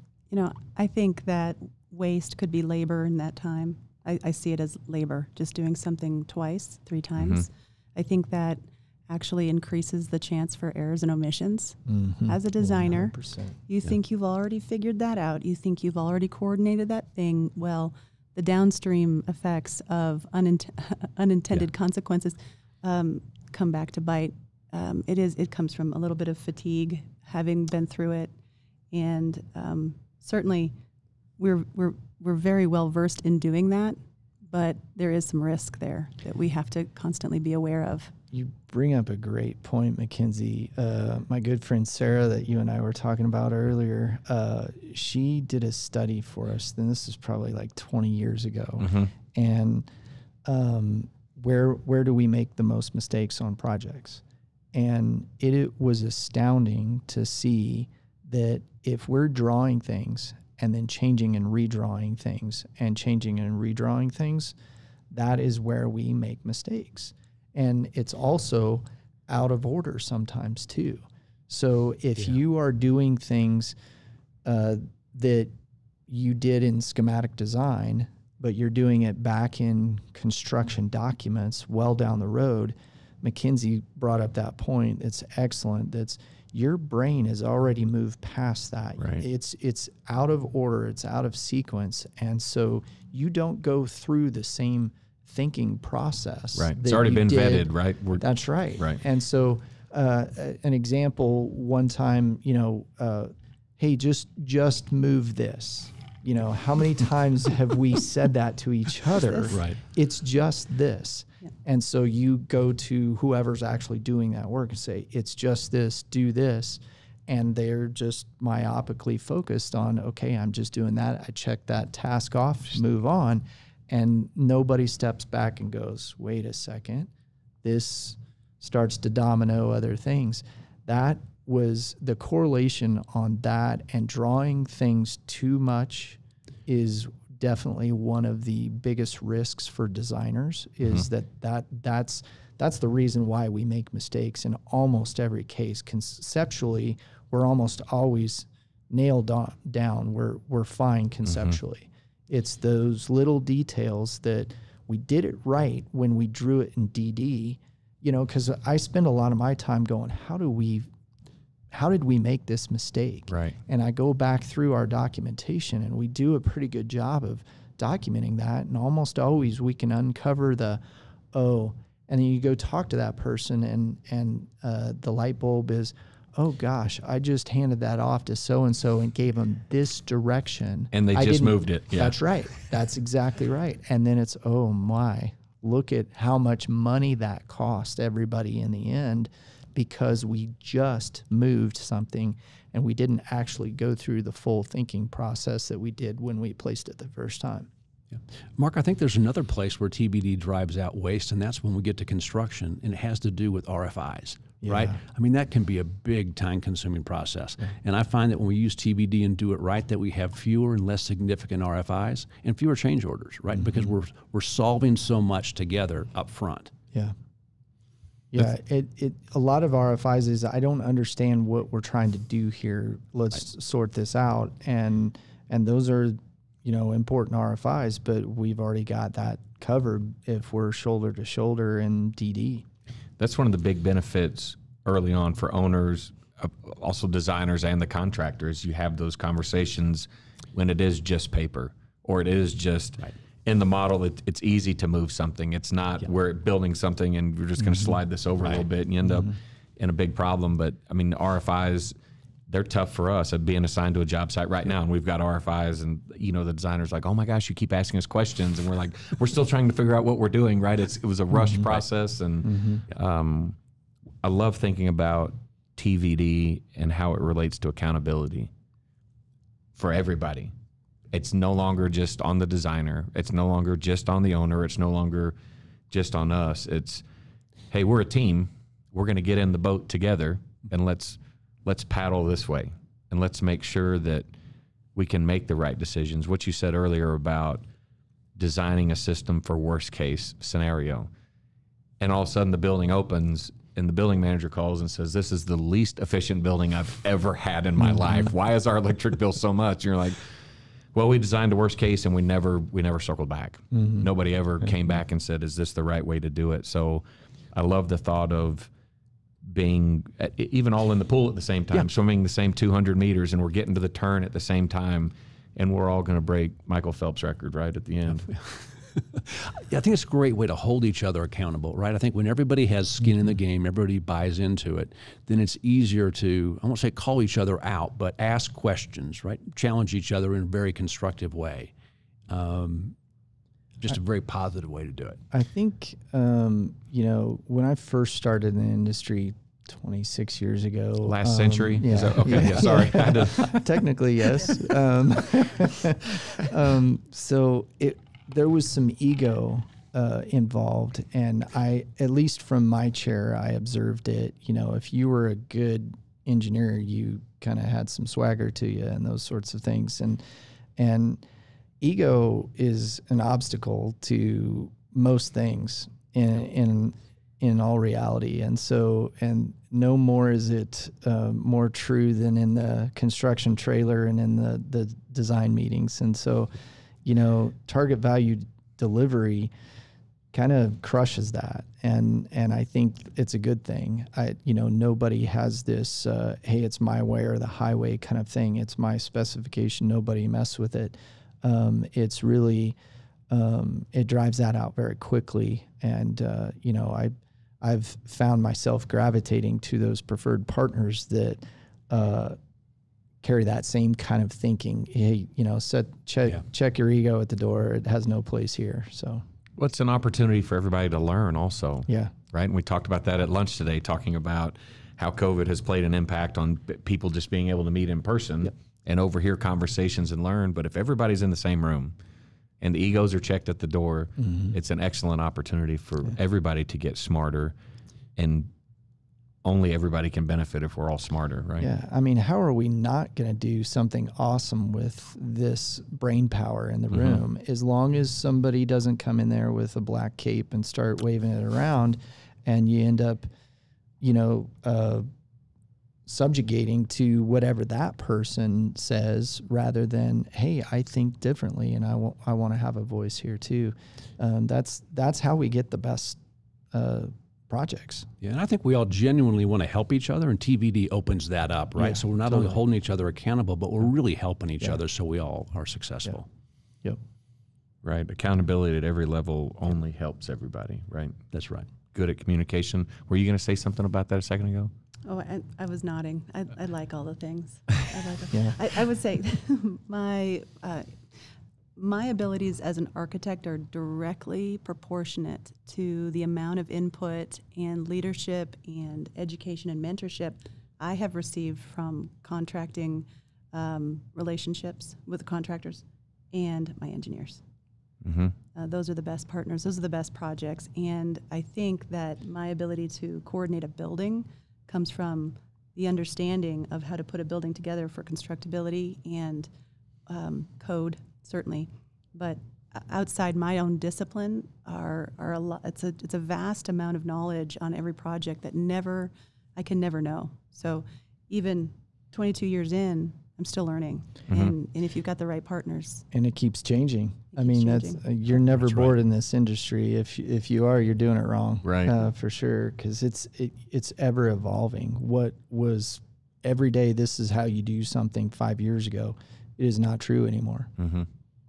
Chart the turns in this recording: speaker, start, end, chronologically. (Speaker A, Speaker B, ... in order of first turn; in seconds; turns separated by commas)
Speaker A: 0.3-13.1, Speaker B: 7.2-7.5, Speaker C: 11.9-13.6, Speaker A: 13.7-28.3, Speaker A: 28.9-30.7, Speaker A: 31.4-34.0, Speaker A: 34.5-38.1, Speaker C: 38.3-49.9, Speaker B: 48.8-49.1, Speaker C: 50.5-54.2, Speaker C: 54.7-64.5, Speaker C: 65.1-73.8, Speaker C: 74.5-75.5, Speaker C: 76.1-127.1, Speaker B: 89.0-89.2, Speaker B: 96.6-98.2, Speaker D: 109.5-109.8, Speaker C: 127.6-160.9, Speaker B: 151.3-151.6, Speaker C: 161.7-170.8, Speaker B: 163.3-163.6, Speaker C: 171.3-197.7, Speaker B: 180.9-182.2, Speaker D: 198.6-216.7, Speaker C: 204.6-205.0, Speaker C: 218.3-232.7, Speaker B: 233.2-251.9, Speaker B: 252.5-263.6, Speaker C: 261.3-261.6, Speaker C: 262.4-262.8, Speaker B: 264.2-268.5, Speaker B: 269.8-270.5, Speaker B: 271.1-275.4, Speaker B: 275.9-277.0, Speaker B: 277.7-284.3, Speaker B: 284.9-287.6, Speaker B: 288.4-291.1, Speaker B: 292.0-300.2, Speaker C: 297.8-298.3, Speaker B: 300.9-308.7, Speaker C: 303.7-304.1, Speaker B: 309.4-318.3, Speaker D: 318.3-331.7, Speaker D: 332.3-332.9, Speaker D: 333.8-335.2, Speaker C: 335.3-360.2, Speaker B: 341.0-343.7, Speaker C: 360.8-361.2, Speaker C: 361.8-376.5, Speaker C: 377.0-379.5, Speaker C: 380.3-392.8, Speaker C: 393.3-402.4, Speaker C: 403.2-409.2, Speaker B: 409.6-421.9, Speaker C: 411.9-412.1, Speaker B: 422.6-427.5, Speaker C: 424.2-424.5, Speaker B: 428.2-428.5, Speaker B: 429.4-431.7, Speaker C: 431.6-443.3, Speaker B: 436.9-437.2, Speaker C: 444.0-445.1, Speaker C: 446.1-456.2, Speaker C: 456.7-458.1, Speaker D: 458.2-466.3, Speaker C: 461.8-462.6, Speaker B: 467.8-471.2, Speaker D: 471.3-471.7, Speaker B: 471.9-474.7, Speaker A: 475.1-481.0, Speaker C: 478.3-478.6, Speaker A: 481.8-497.4, Speaker B: 498.0-498.4, Speaker A: 498.5-509.5, Speaker A: 510.1-526.0, Speaker B: 524.3-524.5, Speaker C: 526.1-540.7, Speaker A: 527.3-528.0, Speaker D: 528.6-528.9, Speaker B: 531.6-532.0, Speaker B: 540.8-541.1